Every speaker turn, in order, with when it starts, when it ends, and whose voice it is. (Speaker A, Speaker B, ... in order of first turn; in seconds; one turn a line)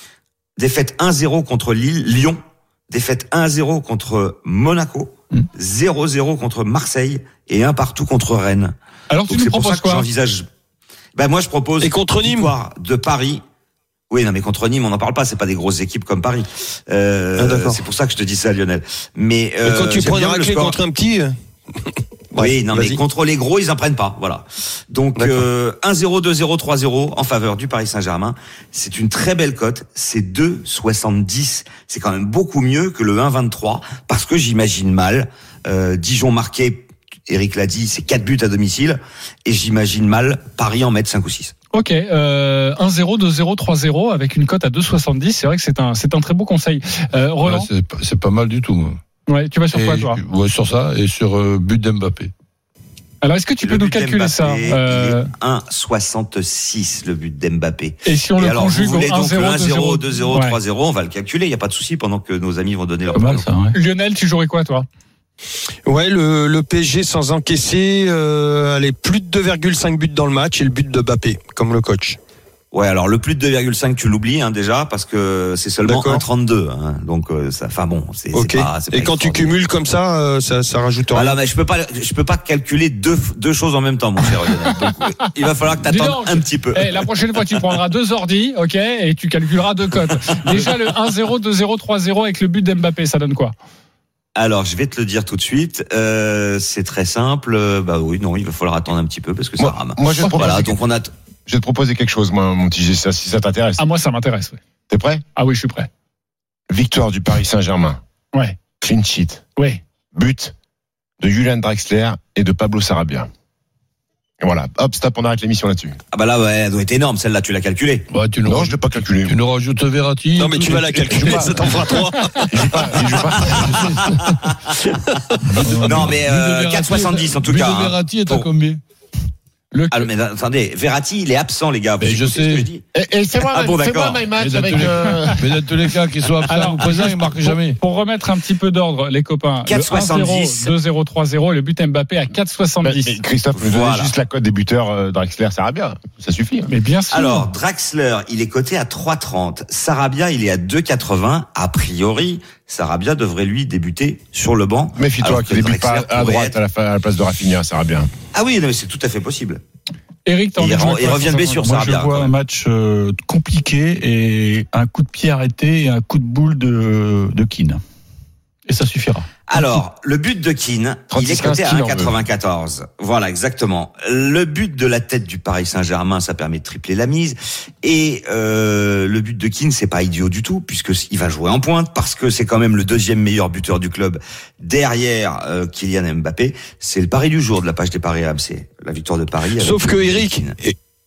Speaker A: 0.6-8.7
Speaker B: 9.1-10.1
Speaker A: 9.3-10.4
Speaker A: 11.2-13.4
Speaker C: 11.8-12.5
Speaker A: 14.1-20.8
Speaker C: 17.4-17.8
Speaker C: 19.6-21.4
Speaker C: 22.3-23.0
Speaker A: 22.4-41.5
Speaker C: 25.2-25.5
Speaker B: 41.7-47.7
Speaker D: 47.4-49.0
Speaker B: 49.3-50.2
Speaker D: 49.7-52.3
Speaker B: 53.2-55.3
Speaker A: 53.6-63.5
Speaker B: 58.0-60.6
Speaker E: 63.1-63.7
Speaker B: 63.7-64.8
Speaker C: 65.8-72.2
Speaker A: 72.7-79.6
Speaker C: 75.8-76.2
Speaker C: 78.3-81.3
Speaker A: 81.1-87.1
Speaker B: 85.9-93.5
Speaker A: 94.3-101.1
Speaker F: 99.6-100.8
Speaker F: 101.5-103.8
Speaker B: 103.8-104.6
Speaker F: 104.9-105.2
Speaker B: 105.3-105.9
Speaker F: 106.7-108.0
Speaker B: 108.3-108.6
Speaker F: 108.8-109.4
Speaker F: 110.1-110.5
Speaker F: 111.2-113.3
Speaker F: 114.4-116.0
Speaker A: 116.1-118.1
Speaker D: 118.1-121.7
Speaker F: 118.4-119.3
Speaker C: 120.4-123.0
Speaker F: 121.1-121.7
Speaker F: 122.5-123.9
Speaker D: 123.5-124.3
Speaker A: 123.6-125.0
Speaker E: 125.7-126.1
Speaker D: 125.8-128.8
Speaker A: 125.8-128.5
Speaker B: 129.7-130.1
Speaker A: 129.9-132.8
Speaker D: 132.0-132.7
Speaker F: 132.9-135.4
Speaker A: 133.4-134.2
Speaker D: 134.4-137.8
Speaker B: 135.1-135.3
Speaker B: 136.4-143.2
Speaker A: 139.7-140.7
Speaker F: 142.8-146.7
Speaker A: 143.5-144.1
Speaker B: 146.7-147.5
Speaker A: 147.1-156.6
Speaker F: 155.0-158.1
Speaker A: 158.3-159.6
Speaker B: 160.2-161.6
Speaker A: 160.6-162.3
Speaker E: 161.4-167.8
Speaker E: 168.7-169.8
Speaker A: 169.5-190.6
Speaker F: 171.1-172.1
Speaker C: 189.6-190.8